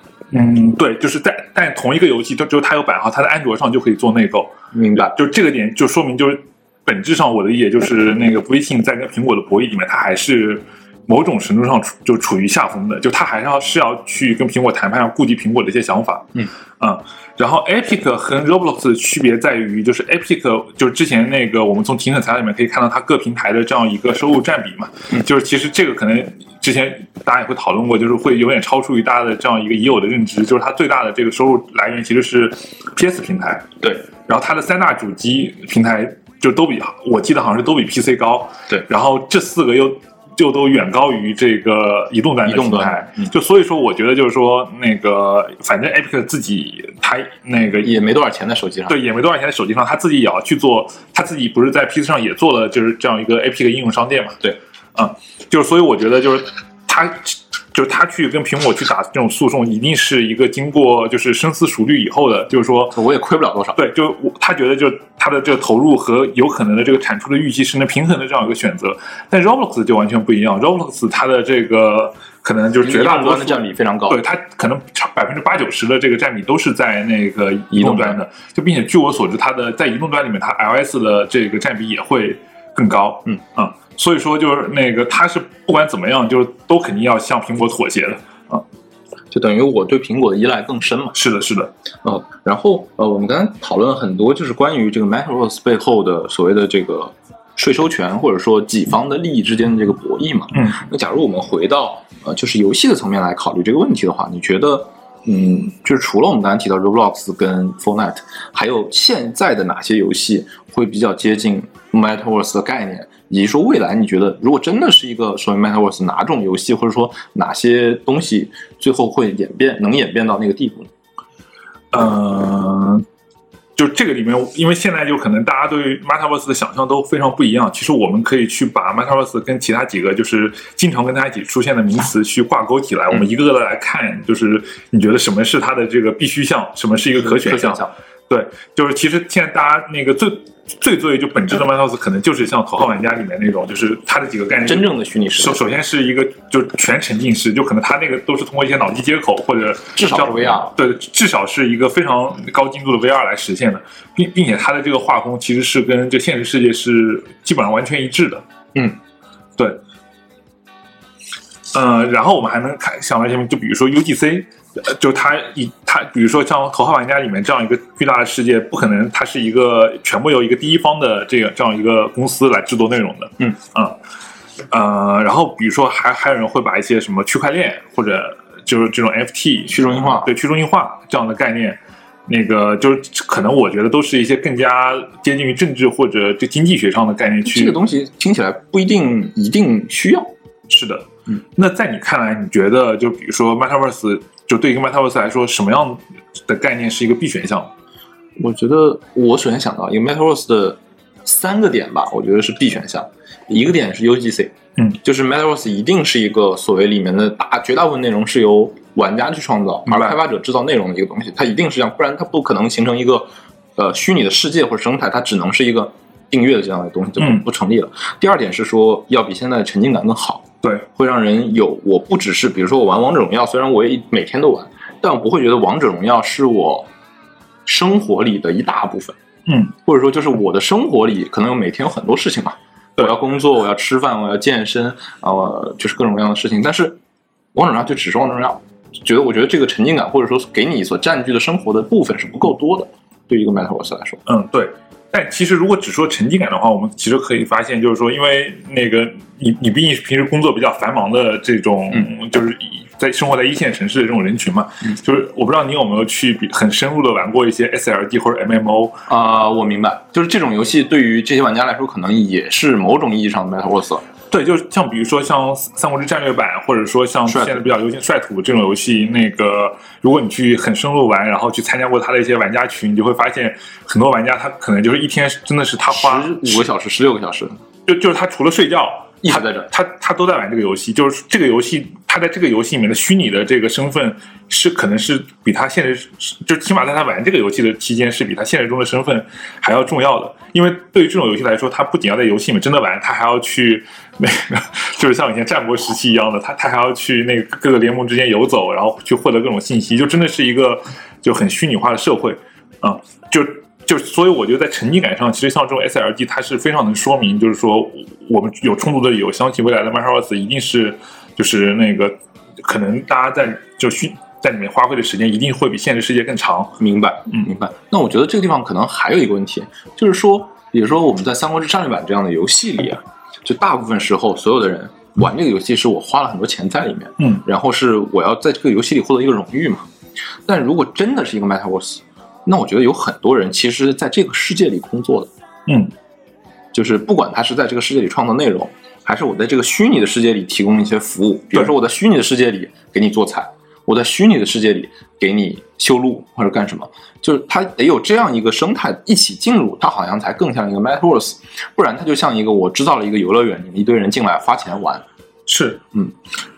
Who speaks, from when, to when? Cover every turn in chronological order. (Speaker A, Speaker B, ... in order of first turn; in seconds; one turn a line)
Speaker A: 0.3-33.7
Speaker B: 4.7-5.1
Speaker A: 34.2-47.9
Speaker B: 42.5-43.3
Speaker B: 47.8-49.0
Speaker A: 48.9-54.4
Speaker A: 55.0-63.0
Speaker B: 62.9-63.8
Speaker A: 63.8-88.6
Speaker B: 72.8-74.2
Speaker B: 77.7-78.2
Speaker B: 89.3-91.2
Speaker A: 91.1-91.7
Speaker B: 92.0-120.9
Speaker A: 121.9-123.1
Speaker A: 123.8-158.4
Speaker B: 137.2-137.9
Speaker B: 144.6-145.7
Speaker B: 149.9-150.7
Speaker A: 161.7-173.9
Speaker A: 174.7-187.8
Speaker B: 179.7-180.3
Speaker B: 187.5-190.3
Speaker A: 190.7-197.7
Speaker B: 198.4-226.9
Speaker A: 209.9-210.2
Speaker A: 217.2-217.4
Speaker B: 227.7-229.2
Speaker A: 229.5-229.7
Speaker B: 229.8-237.0
Speaker B: 237.5-244.2
Speaker A: 244.3-259.0
Speaker B: 259.1-264.1
Speaker A: 264.3-276.6
Speaker B: 267.3-267.7
Speaker B: 275.9-277.5
Speaker A: 277.9-316.8
Speaker B: 279.2-279.7
Speaker B: 316.8-329.9
Speaker B: 330.5-335.3
Speaker A: 335.7-335.9
Speaker B: 336.7-355.1
Speaker A: 355.5-355.9